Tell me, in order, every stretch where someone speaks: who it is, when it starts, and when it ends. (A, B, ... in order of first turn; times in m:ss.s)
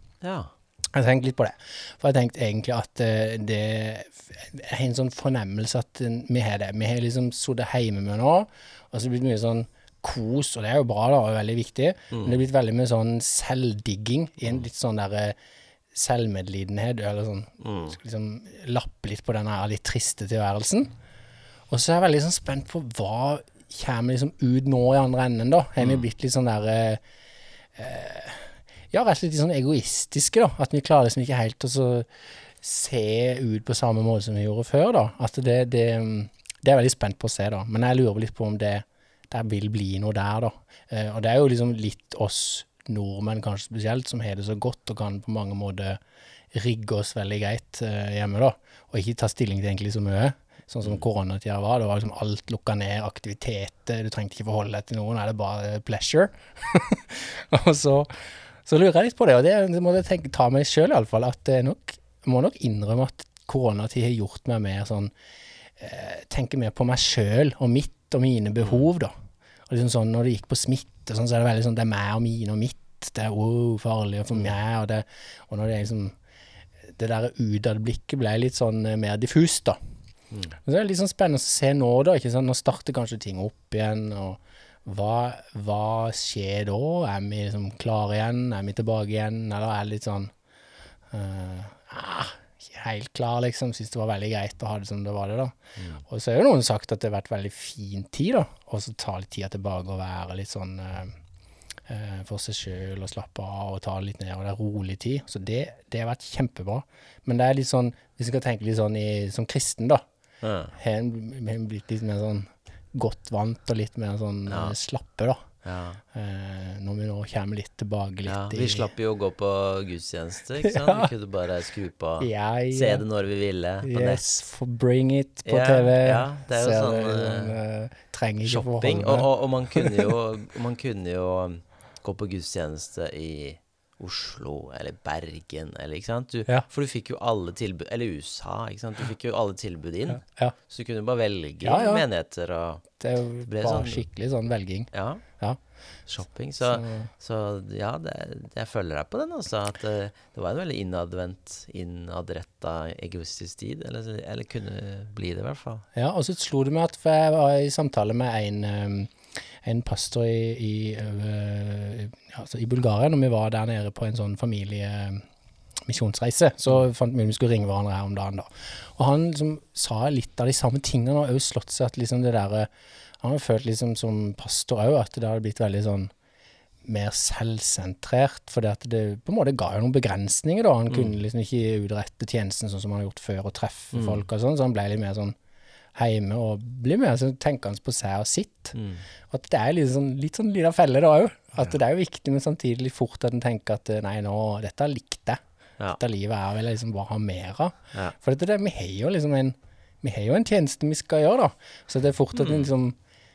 0:00.2-0:00.5 A
0:00.9-0:15.4 B
0:12.1-0:12.4 A
0:15.9-0:20.9 B
0:17.6-0:18.0 A
0:21.7-0:27.0 B
0:25.8-0:26.0 A
0:27.8-0:32.1 B
0:32.6-0:46.0 B
0:46.5-1:05.1 B
1:05.8-1:09.1 B
1:08.6-1:08.9 A
1:09.7-1:16.2 B
1:16.9-1:19.8 B
1:20.6-1:30.3 B
1:31.1-1:41.2 B
1:35.8-1:36.0 A
1:41.9-1:50.0 B
1:50.4-1:50.7 A
1:50.7-1:55.4 B
1:54.5-1:54.8 A
1:55.6-1:56.0 A
1:56.1-1:58.9 B
1:58.2-2:04.2 A
2:00.6-2:01.1 B
2:02.2-2:03.1 B
2:03.8-2:10.1 B
2:05.4-2:07.6 A
2:08.4-2:22.8 A
2:20.2-2:20.6 B
2:21.6-2:22.1 B
2:23.0-2:25.6 B
2:23.5-2:24.0 A
2:24.9-2:25.2 A
2:26.1-2:35.8 A
2:26.7-2:27.1 B
2:36.0-2:45.2 B
2:45.9-2:56.1 B
2:56.8-3:05.4 B
3:00.9-3:01.2 A
3:03.9-3:04.2 A
3:06.0-3:08.8 B
3:08.8-3:09.0 A
3:09.3-3:15.4 B
3:15.9-3:23.0 B
3:22.4-3:22.7 A